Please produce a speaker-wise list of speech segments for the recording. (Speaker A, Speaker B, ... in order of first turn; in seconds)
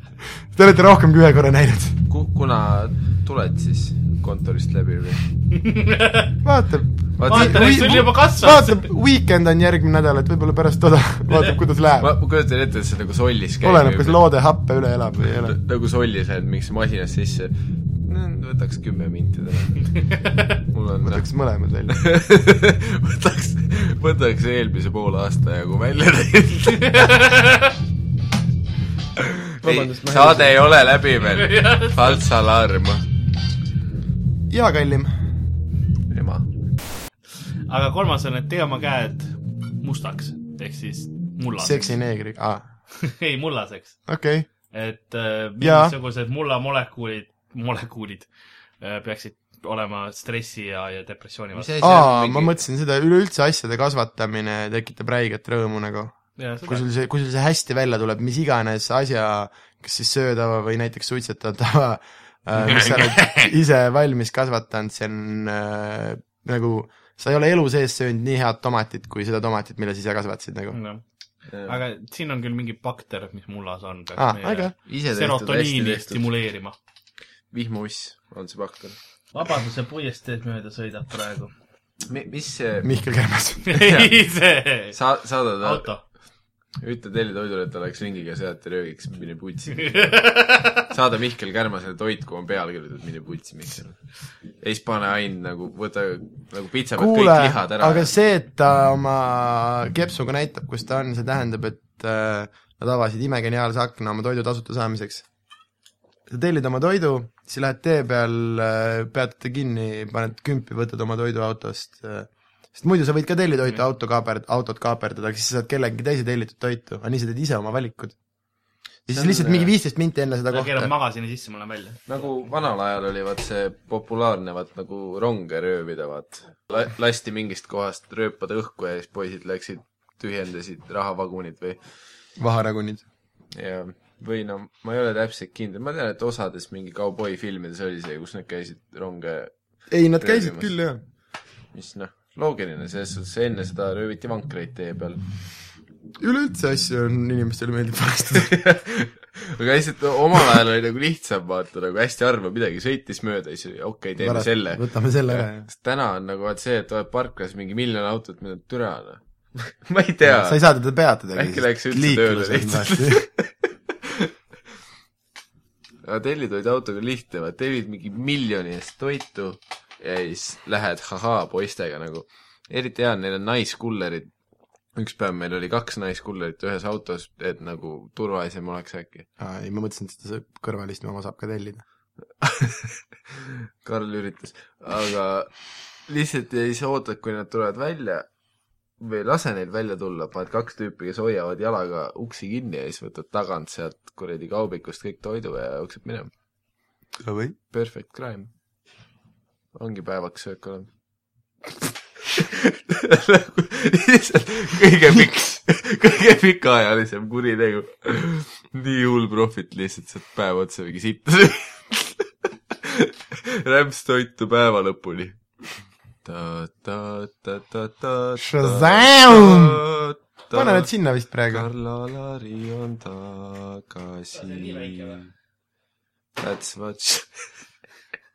Speaker A: 0.5-2.0, 6.4-12.1, 13.6-15.6, 21.0-22.0, 29.6-30.6, 34.5-35.2, 41.6-42.6, 44.1-44.5, 45.6-45.9, 51.8-70.8, 74.2-74.7, 82.8-83.7, 97.0-105.2, 106.3-118.1, 119.1-120.9, 132.4-133.0, 139.9-141.0, 146.2-148.5, 154.2-155.6, 160.2-163.2, 179.4-181.8, 197.2-197.6, 218.4-219.8, 220.5-221.7
Speaker B: 2.1-5.2, 7.2-8.0, 12.0-14.2, 15.4-19.9, 20.7-21.2, 21.9-27.1, 29.2-33.0, 36.1-36.5, 51.5-52.6, 71.5-71.8, 74.8-76.3, 77.5-79.0, 82.0-82.9, 83.7-84.1, 84.9-85.9, 86.8-90.1, 90.8-94.0, 94.6-98.1, 119.1-119.7, 122.1-131.8, 133.5-139.5, 140.2-140.7, 141.7-145.2, 148.4-160.6, 161.3-164.3, 166.0-174.3, 174.9-179.3, 182.4-185.5, 186.1-188.3, 189.0-196.3, 197.7-198.5, 199.7-200.9, 202.2-215.4, 216.2-220.9, 221.5-225.3, 226.4-227.4
Speaker C: 5.5-6.3, 7.2-8.9, 20.2-20.5, 26.8-27.7, 31.2-32.2, 37.7-41.9, 43.0-44.0, 44.7-48.3, 48.8-51.7, 56.4-56.8, 62.6-63.5, 70.7-71.0, 71.6-76.8, 79.3-81.5, 83.6-85.0, 85.6-86.0, 89.8-90.9, 120.5-122.1, 224.3-225.2